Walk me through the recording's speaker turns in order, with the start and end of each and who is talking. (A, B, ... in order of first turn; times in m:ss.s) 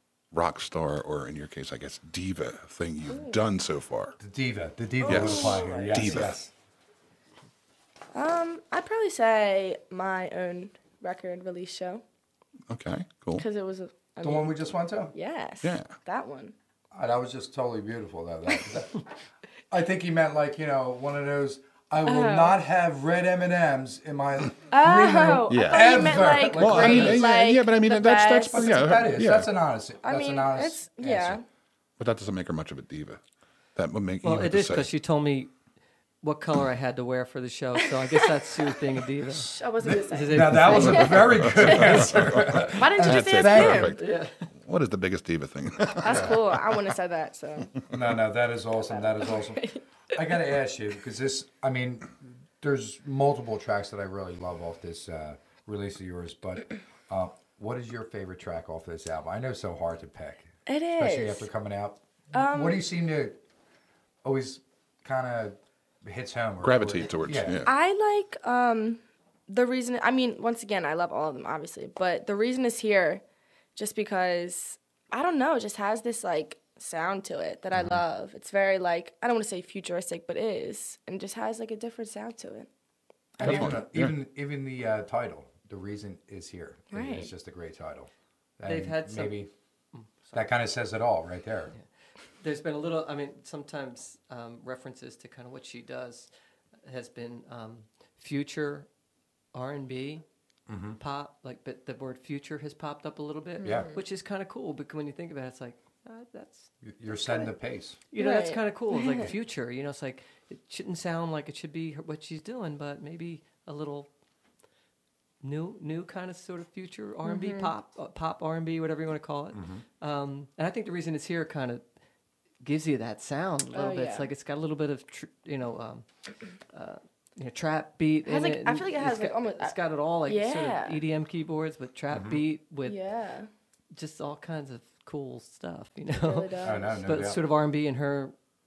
0:00.3-0:04.2 A
0:03.1-0:03.4 B
0:04.2-0:06.5 C
0:05.0-0:06.3 B
0:05.0-0:06.4 A
0:08.1-0:12.0 B
0:12.7-0:13.4 A
0:13.4-0:14.6 B
0:14.2-0:15.1 C
0:15.1-0:16.5 B
0:15.6-0:15.9 A
0:16.9-0:19.1 C
0:19.7-0:27.2 C
0:22.0-0:22.6 B
0:24.7-0:29.1 B
0:25.5-0:29.5 A
0:28.5-0:31.4 C
0:30.0-0:31.4 B
0:32.0-0:33.2 A
0:33.8-0:34.9 A
0:34.2-0:35.5 D
0:36.2-0:41.6 D
0:39.3-0:44.0 B
0:39.8-0:44.0 C
0:41.1-0:46.9 A
0:44.0-0:44.5 D
0:46.0-0:47.8 B
0:46.0-0:46.4 C
0:47.9-1:03.4 C
0:48.8-0:50.3 B
1:00.7-1:01.5 B
1:02.3-1:02.8 B
1:04.2-1:07.7 C
1:06.6-1:07.7 A
1:07.6-1:13.2 B
1:13.8-1:22.7 B
1:23.4-1:29.5 C
1:23.4-1:24.1 A
1:26.9-1:27.3 B
1:28.7-1:30.5 D
1:30.3-1:31.7 C
1:31.7-1:36.3 D
1:36.8-1:38.9 D
1:39.5-1:40.2 D
1:40.7-1:41.0 C
1:41.0-1:46.7 D
1:43.6-1:44.0 B
1:43.6-1:43.9 C
1:46.8-1:48.0 C
1:48.1-1:54.1 D
1:48.2-1:49.3 B
1:55.4-2:01.8 D
1:57.2-1:57.7 B
1:59.5-1:59.8 C
2:02.6-2:06.0 D
2:03.7-2:04.3 B
2:06.7-2:13.0 D
2:08.2-2:11.0 B
2:12.1-2:12.4 C
2:12.8-2:13.5 B
2:13.9-2:18.3 D
2:16.2-2:17.0 B
2:16.6-2:17.4 C